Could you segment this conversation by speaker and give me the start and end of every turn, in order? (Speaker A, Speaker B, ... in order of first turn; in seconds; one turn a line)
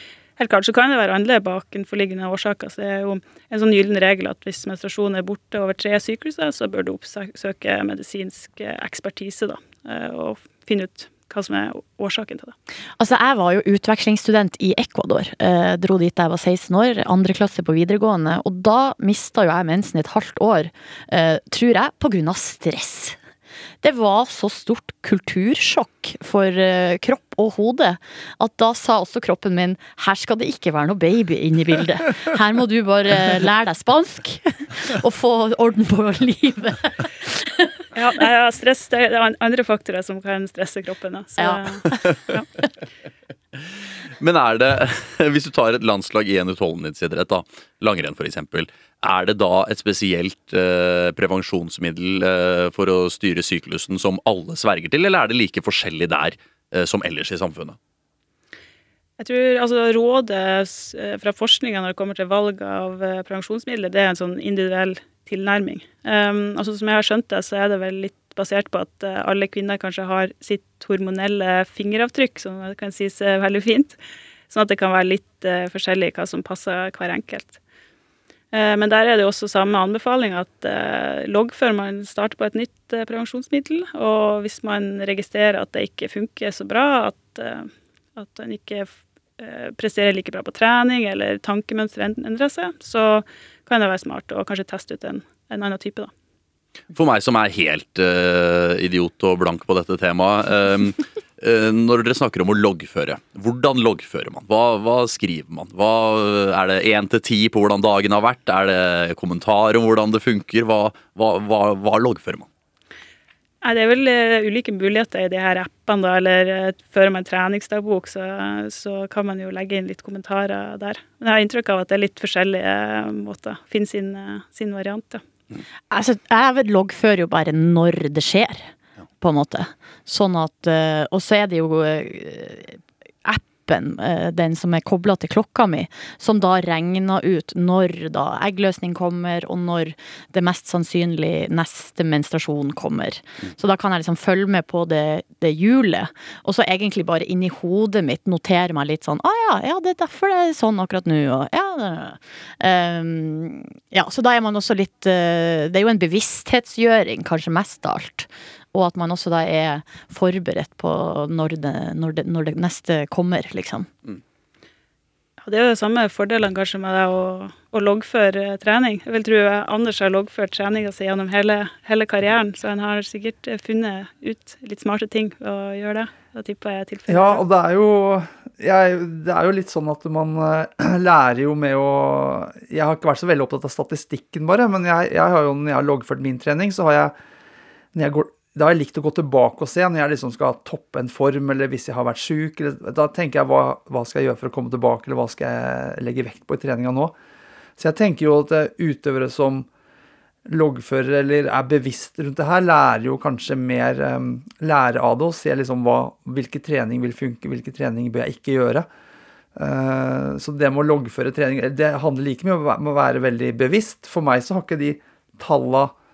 Speaker A: 0.4-12.6
Speaker B: 13.0-23.2
Speaker B: 23.8-37.7
Speaker A: 38.0-42.5
Speaker B: 41.4-42.1
Speaker C: 44.2-57.8
Speaker A: 59.2-74.0
Speaker A: 74.5-77.6
Speaker A: 78.5-96.1
Speaker C: 96.9-112.5
Speaker A: 113.6-125.2
Speaker B: 125.9-163.9
Speaker A: 165.4-177.4
Speaker D: 177.1-187.1
Speaker D: 187.9-197.1
Speaker D: 197.8-199.7
Speaker D: 200.4-208.9
Speaker D: 209.6-215.9